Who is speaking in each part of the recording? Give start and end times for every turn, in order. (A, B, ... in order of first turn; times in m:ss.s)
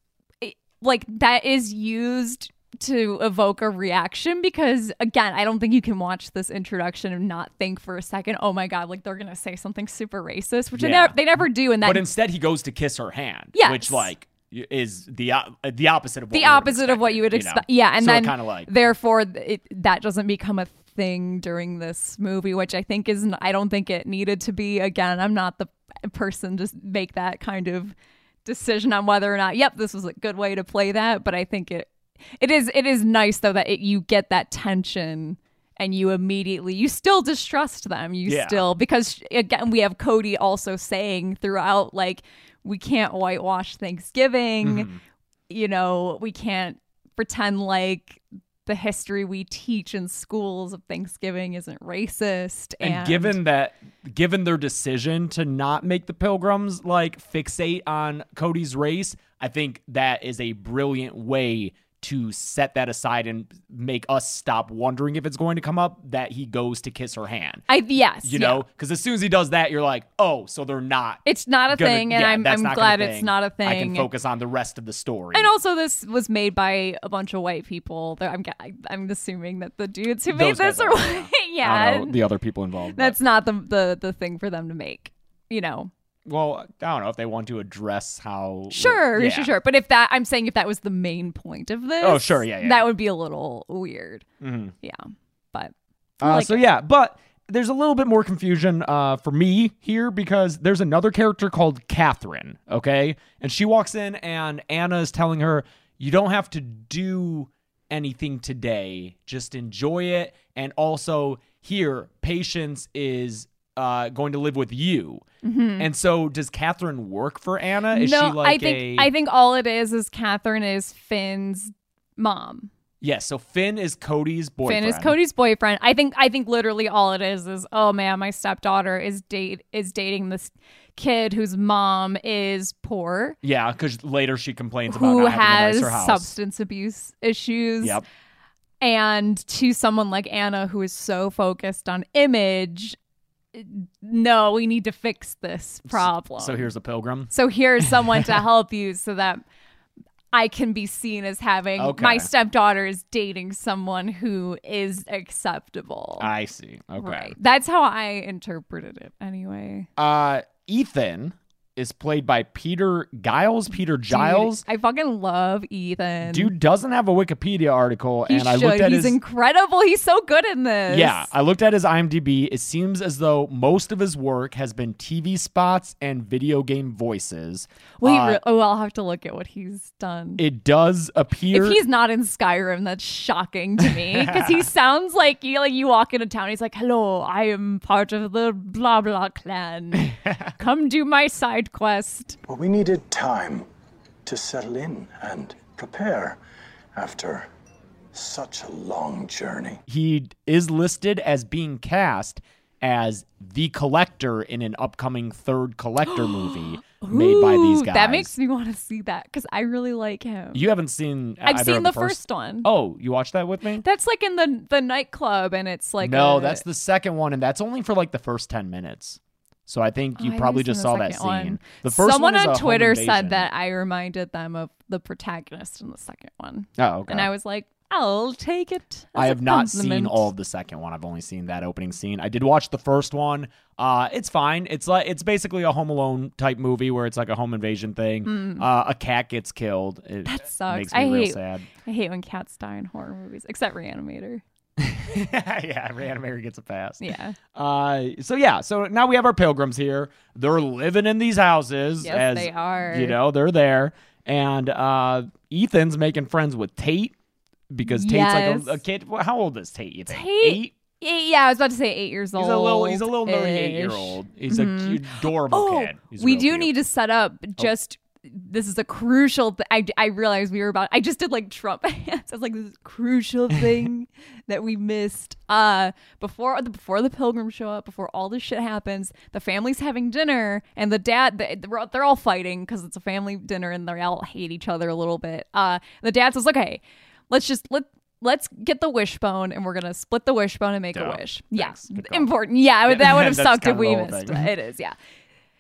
0:00.4-0:12.1 A
0:10.8-0:18.7 B
0:13.5-0:14.1 A
0:16.3-0:44.9 A
0:38.3-0:38.7 B
0:44.6-0:45.0 B
0:45.5-0:53.4 A
0:52.8-1:07.7 B
1:07.7-1:08.6 A
1:08.2-1:15.5 B
1:11.2-1:14.1 A
1:15.3-1:22.2 A
1:20.3-1:23.2 B
1:23.0-1:25.9 A
1:26.3-1:29.5 B
1:28.7-1:34.2 A
1:32.0-1:32.9 B
1:34.4-1:34.8 B
1:34.8-1:36.6 A
1:36.2-1:55.2 B
1:55.4-1:55.9 A
1:55.8-1:59.1 B
1:57.9-2:02.7 A
2:03.0-2:05.2 B
2:04.6-2:13.4 A
2:13.4-2:16.3 B
2:14.9-2:18.0 A
2:18.8-2:23.0 A
2:23.5-2:26.7 A
2:25.9-2:28.3 B
2:27.3-2:29.4 A
2:30.3-2:36.3 A
2:31.8-2:32.3 B
2:36.2-2:37.4 B
2:37.0-2:39.9 A
2:40.0-2:44.6 B
2:44.1-2:46.5 A
2:46.2-2:49.2 B
2:48.3-2:51.3 A
2:50.9-2:58.4 B
2:58.0-3:00.4 A
3:00.4-3:01.8 B
3:01.5-3:12.4 A
3:04.1-3:04.6 B
3:10.0-3:10.5 B
3:12.5-3:13.7 C
3:14.3-3:16.4 C
3:17.0-3:17.5 C
3:18.1-3:19.8 C
3:19.9-3:28.3 B
3:26.1-3:30.7 A
3:30.5-3:33.8 B
3:31.4-3:32.7 A
3:33.8-3:36.6 A
3:36.0-3:43.5 B
3:40.2-3:50.3 A
3:46.8-3:47.3 B
3:49.2-4:01.7 B
3:58.2-3:58.7 A
4:00.2-4:04.4 A
4:04.8-4:17.1 B
4:07.0-4:07.4 A
4:12.0-4:13.2 A
4:17.7-4:20.7 B
4:17.8-4:18.8 A
4:20.1-4:55.0 A
4:22.4-4:26.8 B
4:50.9-4:52.3 B
4:52.9-4:54.5 B